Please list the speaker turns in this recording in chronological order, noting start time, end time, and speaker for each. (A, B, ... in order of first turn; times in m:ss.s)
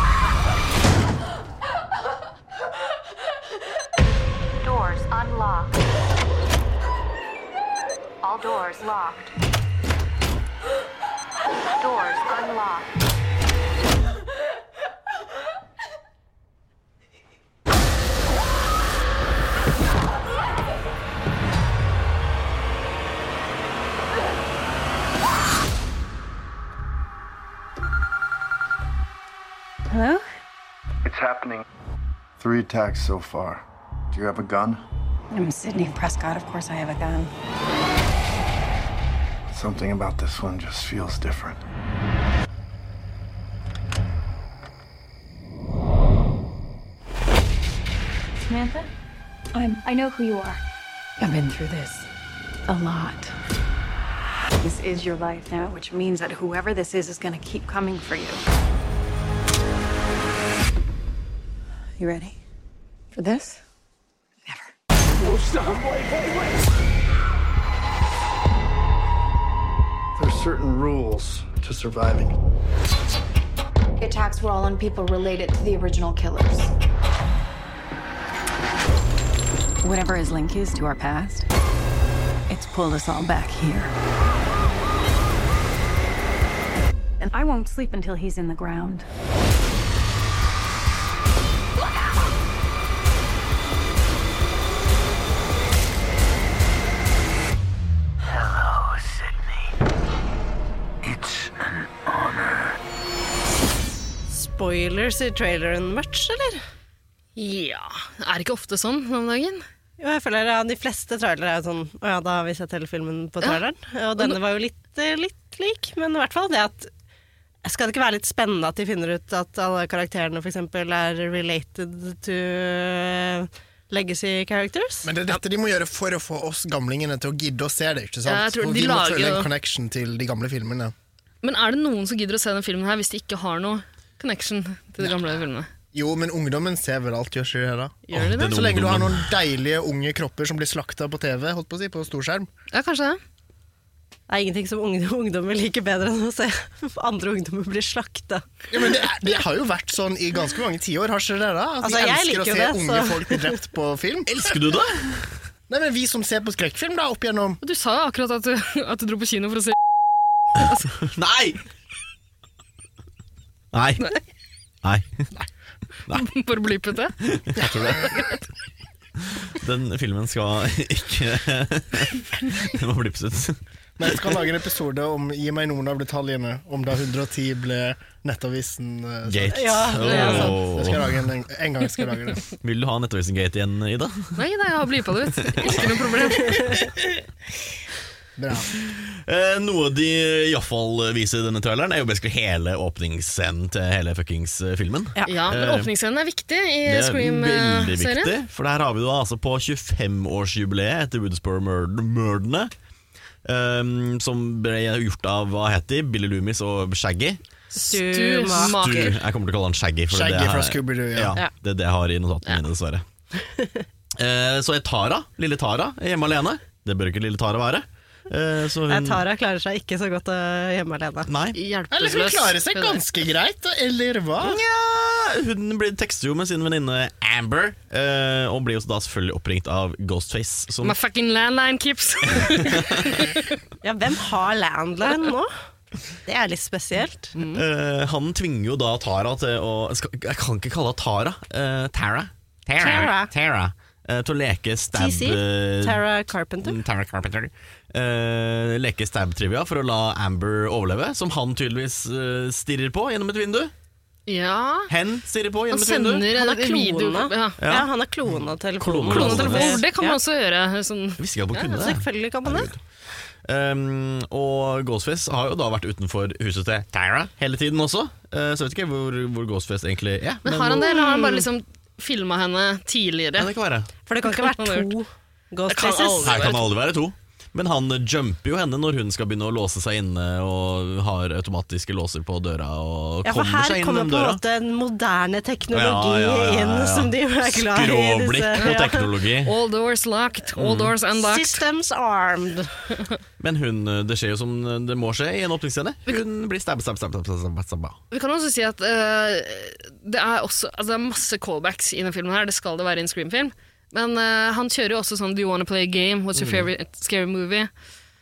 0:04.6-0:05.8 A
0:08.2-0:09.3 A
0:11.8-0:12.9 A
0:29.9-0:30.2 B
0:31.0-0:31.6 C
0:32.4-0:34.8 C
0:35.3-0:37.3 B
0:39.5-0:41.6 C
0:48.5-0:48.9 B
0:49.5-0:49.9 B
0:49.8-0:50.6 A
0:51.2-0:52.1 B
0:52.7-0:53.3 B
0:54.6-0:58.4 B
1:02.0-1:02.4 B
1:03.2-1:03.5 B
1:10.2-1:12.3 C
1:14.0-1:16.7 A
1:19.8-1:21.5 B
1:22.5-1:23.9 B
1:27.2-1:29.0 B
1:44.3-1:46.6 D
1:47.4-1:49.6 E
1:50.0-1:56.9 D
1:57.6-2:05.1 D
2:05.0-2:10.9 F
2:08.2-2:09.5 E
2:11.4-2:15.7 E
2:15.9-2:22.5 F
2:18.0-2:18.6 E
2:18.1-2:19.3 G
2:22.7-2:23.2 E
2:24.3-2:28.4 D
2:28.7-2:34.6 F
2:31.8-2:33.5 D
2:34.3-2:35.3 G
2:35.7-2:37.6 F
2:37.6-2:39.7 E
2:41.0-2:41.6 G
2:43.7-2:44.1 G
2:44.8-2:45.3 G
2:46.1-2:47.1 E
2:47.2-2:48.2 G
2:48.1-2:48.4 E
2:49.4-2:54.3 G
2:54.0-3:02.4 F
2:59.2-3:01.2 G
2:59.5-3:00.6 D
3:00.1-3:00.5 E
3:02.6-3:04.4 G
3:04.4-3:06.7 E
3:05.4-3:05.9 G
3:06.4-3:06.7 D
3:08.4-3:08.7 F
3:08.7-3:15.9 G
3:15.2-3:18.3 E
3:16.8-3:22.7 G
3:23.4-3:27.4 G
3:27.7-3:29.2 E
3:27.8-3:29.1 D
3:28.5-3:33.0 G
3:30.1-3:31.4 F
3:33.3-3:33.8 D
3:34.2-3:39.2 G
3:38.9-3:41.3 D
3:41.3-3:41.6 G
3:41.5-3:43.0 E
3:41.9-3:44.6 F
3:44.4-3:51.0 G
3:50.8-3:53.5 E
3:52.4-3:53.1 G
3:53.8-3:55.5 D
3:56.2-3:57.3 D
3:57.3-3:57.6 E
3:57.5-4:06.0 G
4:02.8-4:03.3 D
4:04.9-4:06.8 D
4:06.6-4:13.7 G
4:14.3-4:14.9 E
4:14.9-4:16.3 G
4:15.7-4:17.6 E
4:16.3-4:20.2 D
4:17.6-4:17.9 G
4:18.8-4:19.8 G
4:19.1-4:21.7 E
4:21.2-4:22.8 G
4:21.7-4:22.7 D
4:23.4-4:30.8 G
4:30.4-4:33.5 E
4:30.7-4:31.5 D
4:33.4-4:33.9 G
4:34.0-4:36.5 D
4:34.2-4:34.9 E
4:35.7-4:36.6 E
4:36.2-4:44.4 G
4:43.2-4:49.1 D
4:45.7-4:49.5 G
4:49.4-4:51.6 E
4:50.6-4:50.9 G
4:51.1-4:52.7 D
4:53.4-4:58.0 G
4:58.1-5:07.7 E
5:06.3-5:06.7 G